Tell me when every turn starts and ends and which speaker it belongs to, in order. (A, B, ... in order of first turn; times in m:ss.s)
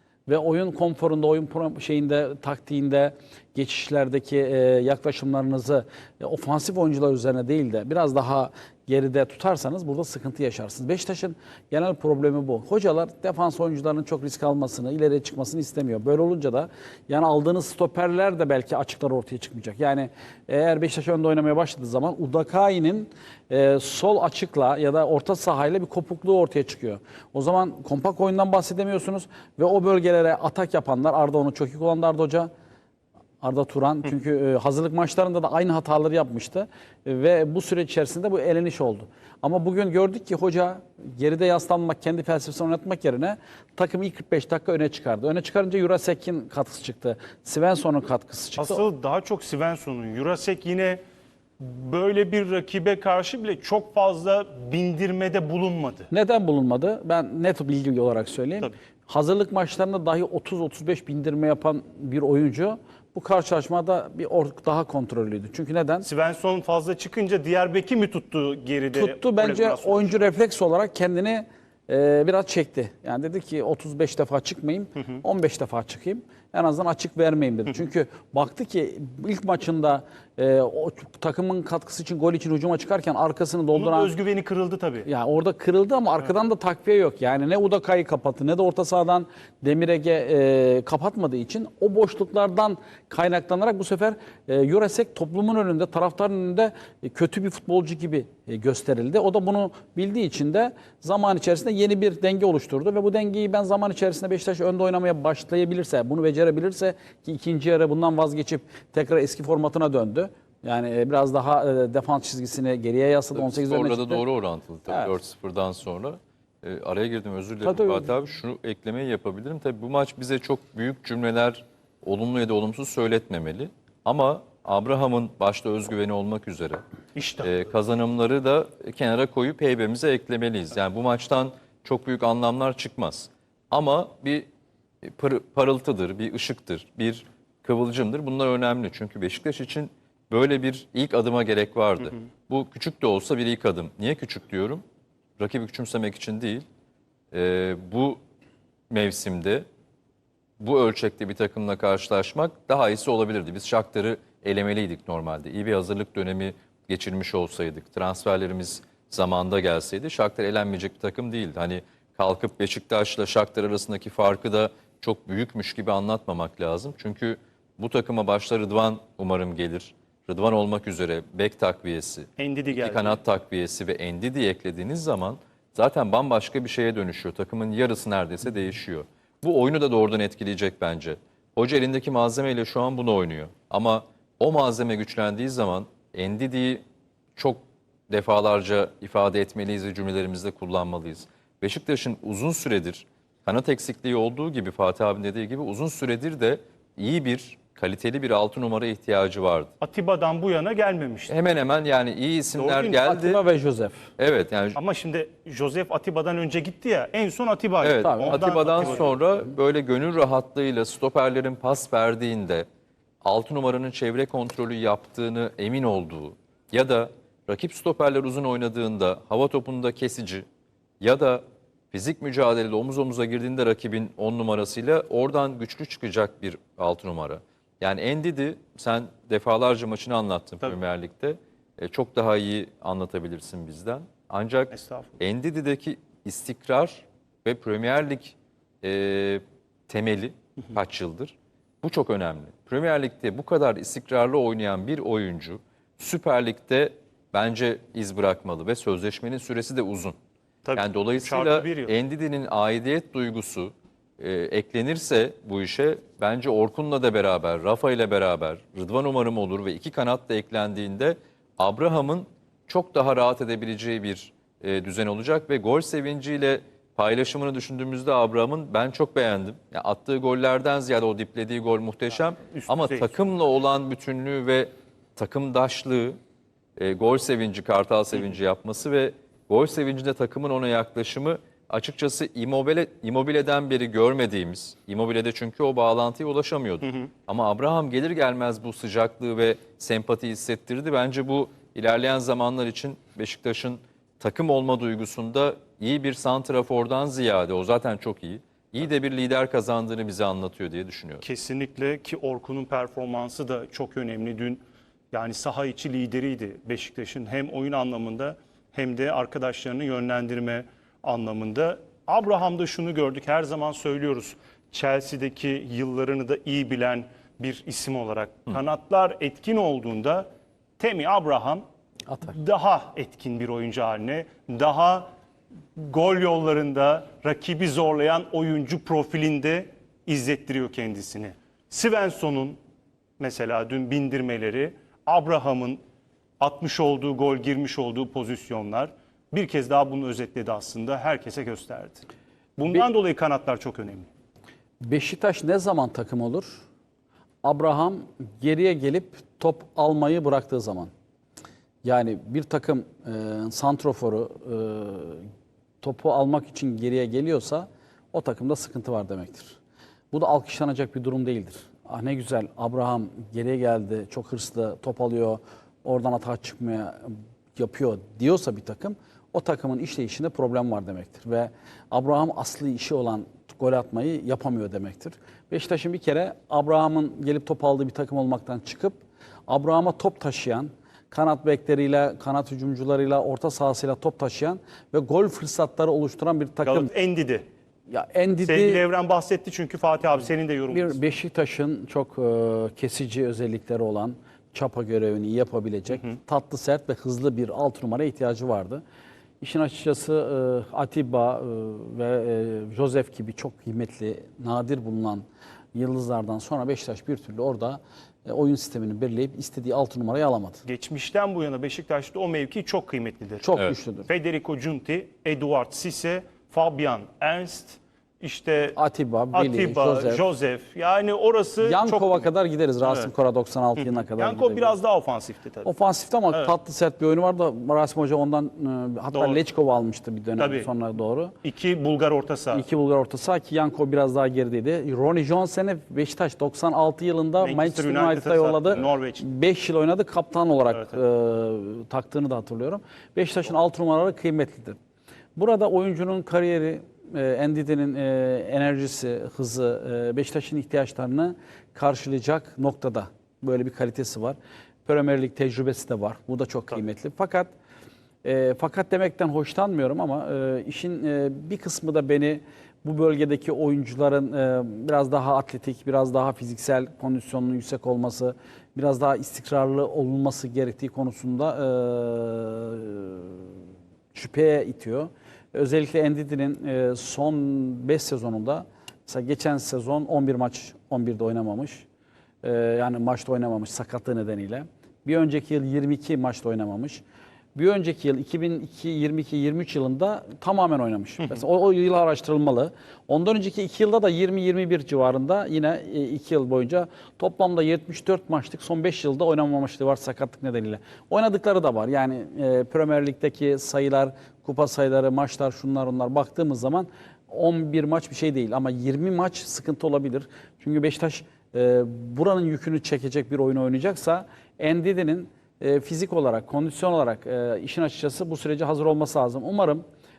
0:00.3-0:32.5 A
0:33.4-0:48.8 A
0:48.6-0:51.0 B
0:51.6-0:56.1 B
0:56.1-1:06.1 A
1:06.0-1:10.3 B
1:08.9-1:24.1 A
1:23.7-1:25.1 B
1:25.0-1:54.2 A
1:53.3-2:06.8 C
1:54.8-1:55.1 A
1:57.6-1:58.1 A
2:07.1-2:07.7 B
2:07.4-2:14.4 C
2:15.0-2:24.8 C
2:25.4-2:26.6 C
2:27.3-2:28.2 C
2:28.9-2:29.6 C
2:30.6-3:06.8 C
2:52.4-2:53.2 B
3:07.4-3:19.7 C
3:19.8-3:21.4 B
3:21.3-3:23.4 C
3:22.5-3:23.0 B
3:23.0-3:24.1 A
3:24.2-3:24.8 C
3:24.8-3:29.1 B
3:27.8-3:32.6 C
3:28.0-3:28.4 A
3:33.2-3:40.4 C
3:41.0-4:10.2 C
3:54.7-3:55.2 B
4:10.6-4:11.9 B
4:10.8-4:36.2 C
4:32.2-4:33.1 B
4:36.8-5:01.2 C
5:01.2-5:20.3 B
5:20.8-5:21.6 B
5:22.1-5:22.4 A
5:22.3-5:25.1 B
5:25.8-5:32.6 B
5:33.2-5:35.8 B
5:36.4-5:42.0 B
5:42.6-5:44.1 B
5:44.8-5:46.6 A
5:47.4-5:50.9 A
5:51.8-5:55.3 A
5:55.8-5:59.6 A
6:00.1-6:26.9 A
6:26.6-6:27.5 B
6:27.9-6:28.8 A
6:28.4-6:31.0 B
6:30.7-6:38.8 A
6:35.9-6:36.2 B
6:39.4-6:50.6 A
6:50.6-6:53.5 B
6:53.4-6:54.1 A
6:54.1-6:58.8 B
6:58.8-7:00.2 A
6:59.3-7:02.3 B
7:01.6-7:04.8 A
7:02.8-7:03.1 B
7:03.8-7:05.7 B
7:05.6-7:11.4 A
7:09.1-7:09.4 B
7:10.4-7:10.7 B
7:11.4-7:12.6 B
7:12.5-7:24.8 A
7:17.4-7:19.2 B
7:25.4-7:37.5 A
7:38.2-7:53.5 A
7:54.1-8:01.9 A
8:02.4-8:07.0 A
8:07.5-8:39.8 A